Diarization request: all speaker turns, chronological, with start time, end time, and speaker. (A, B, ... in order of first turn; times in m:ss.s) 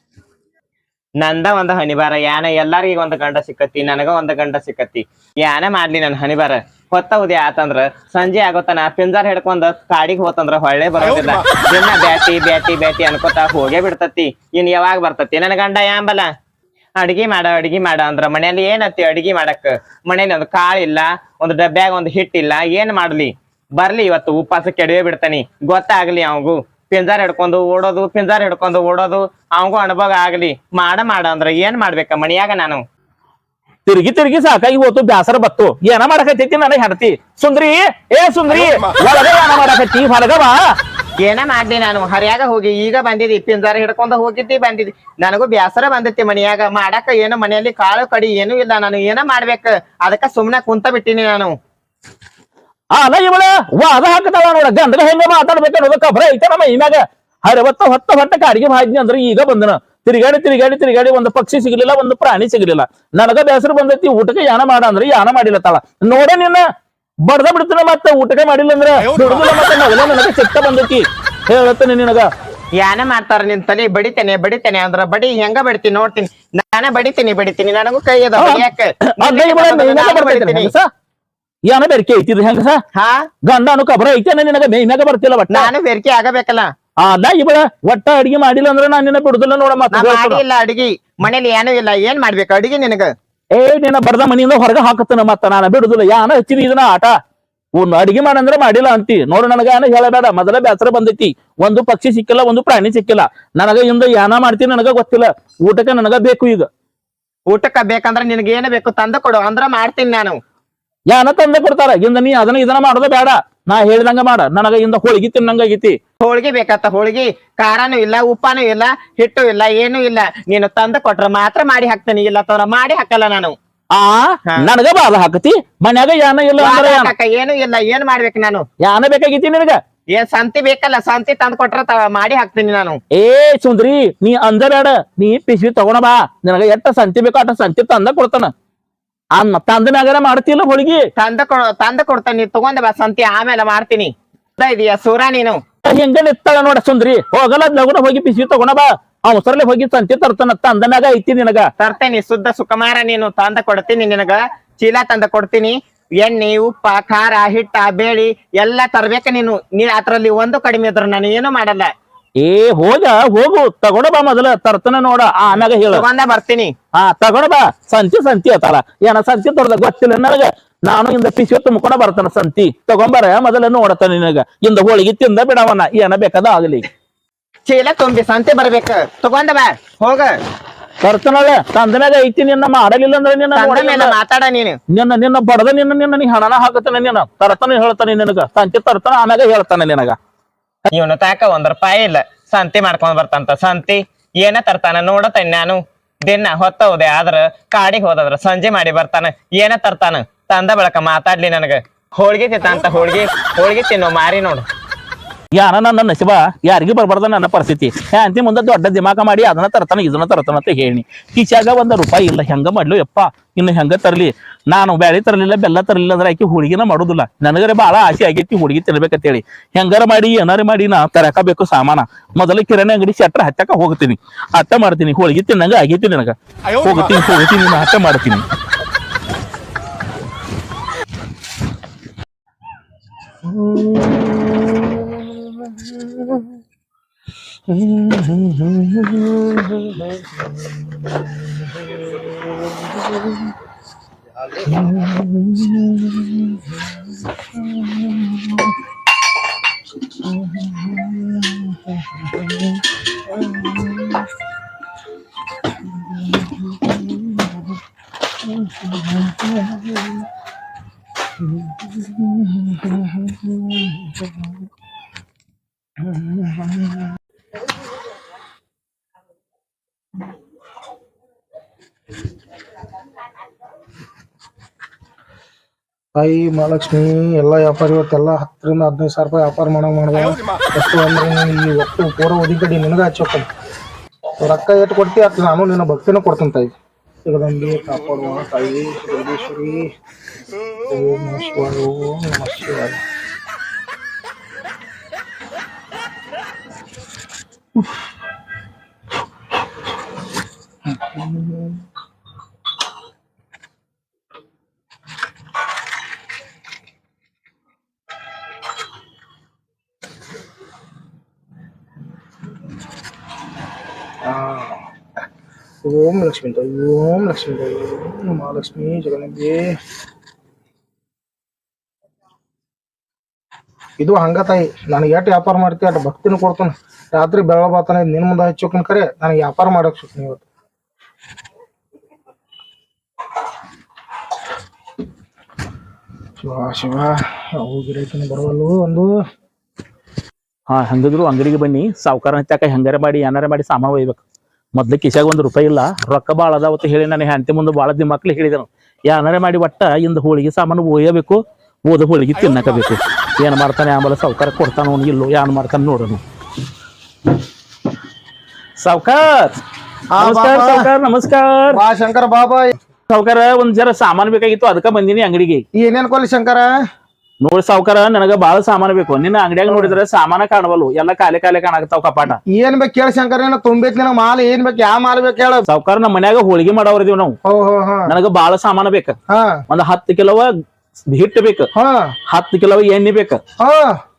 0:01.2-0:16.3 A
0:17.0-0:32.8 A
0:33.8-0:40.6 B
0:41.2-0:51.5 A
0:52.9-1:06.6 B
1:07.2-1:12.3 B
1:12.8-1:20.7 A
1:18.4-1:20.9 B
1:21.6-1:22.8 B
1:22.9-1:23.3 A
1:23.4-1:25.7 B
1:25.5-1:26.7 A
1:27.0-1:30.4 B
1:29.9-1:33.1 A
1:33.5-1:37.1 B
1:37.8-1:46.7 B
1:47.5-1:50.4 A
1:51.1-1:56.0 B
1:56.2-2:03.6 A
2:03.9-2:07.1 B
2:06.6-2:08.6 A
2:08.8-2:09.8 B
2:10.1-2:13.0 A
2:13.2-2:18.5 B
2:19.4-2:21.1 B
2:21.2-2:25.6 A
2:25.8-2:31.7 B
2:31.8-2:41.9 A
2:42.4-2:46.0 B
2:45.9-2:46.7 A
2:46.9-2:56.8 B
2:57.7-3:00.4 A
3:01.0-3:04.1 B
3:03.5-3:04.8 A
3:04.9-3:10.2 B
3:10.9-3:24.6 A
3:25.5-3:48.4 B
3:53.4-3:56.0 C
3:57.7-4:00.0 C
4:04.6-4:06.5 C
4:07.7-4:08.2 C
4:10.4-4:11.7 C
4:18.8-4:19.8 C
4:22.0-4:24.2 C
4:26.0-4:27.0 C
4:36.1-4:43.5 C
4:44.4-4:46.7 C
4:47.2-4:49.9 C
4:50.9-4:53.0 C
5:00.9-5:01.8 C
5:14.2-5:14.8 C
5:15.8-5:19.8 C
5:24.0-5:30.4 C
5:36.4-5:39.1 C
5:40.7-5:44.2 B
5:44.8-5:56.2 B
5:58.8-5:59.5 B
6:00.1-6:00.8 C
6:00.2-6:01.8 B
6:01.7-6:02.8 C
6:03.1-6:05.6 B
6:05.8-6:06.7 C
6:07.4-6:12.4 B
6:09.7-6:09.9 C
6:12.5-6:15.6 C
6:15.7-6:17.4 B
6:17.4-6:18.1 C
6:18.1-6:19.2 B
6:19.3-6:19.6 C
6:19.7-6:20.5 B
6:21.1-6:21.7 B
6:21.7-6:22.1 C
6:22.3-6:23.4 B
6:23.6-6:24.0 C